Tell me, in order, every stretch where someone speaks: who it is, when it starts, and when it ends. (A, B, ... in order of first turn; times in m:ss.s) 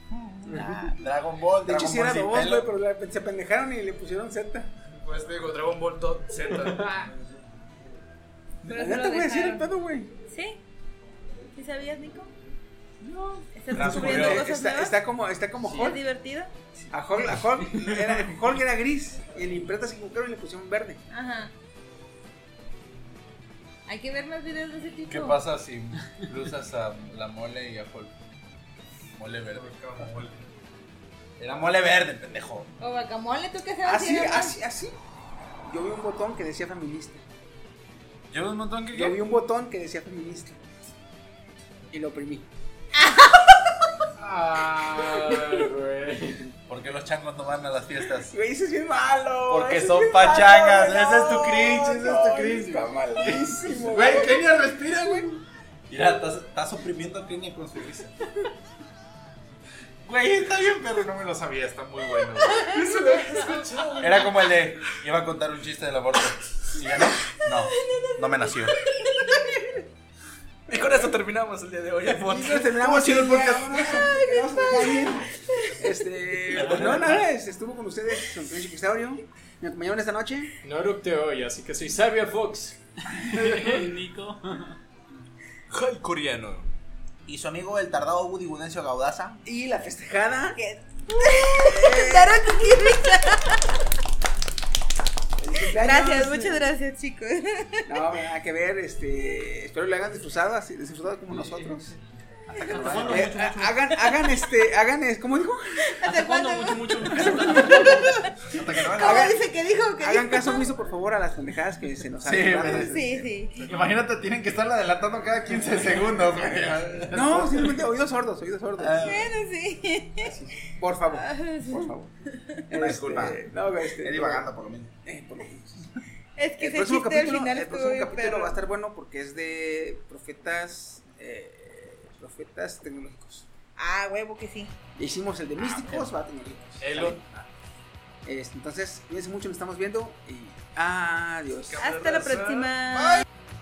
0:00.1-0:02.7 A
0:00.5-0:00.9 B
0:01.6-0:04.7 C
0:05.0-0:07.0 D
0:08.6-0:10.1 C
0:08.7-0:09.7 E
0:10.3-0:10.6 E
0:11.5-0:12.3 E
0:13.0-0:16.0 C
0:13.5-0:15.0 E
0:13.7-0:14.4 A
0:15.7-0:16.5 E
0:16.9-0:21.0 C
0:21.1-0:21.5 E
0:23.9-0:25.4 E
0:25.1-0:28.2 A
0:29.1-0:29.8 A
0:29.5-0:30.4 D
0:31.4-0:32.7 A
0:32.8-0:34.6 E
0:33.8-0:35.0 C
0:35.6-0:37.2 C
0:38.3-0:39.2 A
0:38.9-0:40.6 C
0:41.9-0:42.5 C
0:44.2-0:46.5 B
0:45.2-0:45.6 C
0:46.7-0:48.3 A
0:48.0-0:55.2 C
0:49.5-0:58.1 A
1:00.0-1:02.8 A
1:02.4-1:04.3 D
1:02.7-1:03.9 E
1:04.0-1:08.8 A
1:07.7-1:08.4 E
1:10.7-1:12.7 D
1:12.1-1:20.5 C
1:12.7-1:13.8 A
1:13.7-1:15.7 E
1:16.6-1:17.0 B
1:16.6-1:17.2 A
1:20.6-1:22.8 B
1:23.1-1:24.8 F
1:23.3-1:23.8 B
1:25.7-1:26.7 D
1:27.2-1:29.4 A
1:29.4-1:30.6 C
1:30.6-1:33.8 E
1:31.2-1:33.0 C
1:35.4-1:36.7 C
1:35.6-1:37.9 E
1:37.9-1:41.9 C
1:41.3-1:42.0 F
1:42.5-1:43.4 A
1:42.6-1:43.8 F
1:42.7-1:46.2 C
1:45.8-1:50.7 E
1:46.0-1:48.0 F
1:47.1-1:48.1 C
1:48.4-1:49.4 A
1:48.9-1:49.4 C
1:50.0-1:53.1 C
1:52.2-1:57.8 A
1:52.7-1:53.6 E
1:53.6-1:54.0 F
1:56.6-1:59.2 C
1:58.8-1:59.3 A
1:59.0-2:00.3 E
2:00.6-2:02.1 C
2:01.1-2:02.6 E
2:02.7-2:04.5 C
2:02.7-2:03.5 A
2:04.0-2:04.9 A
2:05.0-2:06.0 C
2:06.4-2:08.6 E
2:06.6-2:13.5 C
2:13.8-2:14.7 E
2:15.0-2:17.2 C
2:15.7-2:16.1 A
2:16.8-2:17.2 D
2:18.2-2:21.8 C
2:21.7-2:22.8 D
2:21.8-2:23.2 E
2:22.9-2:23.2 A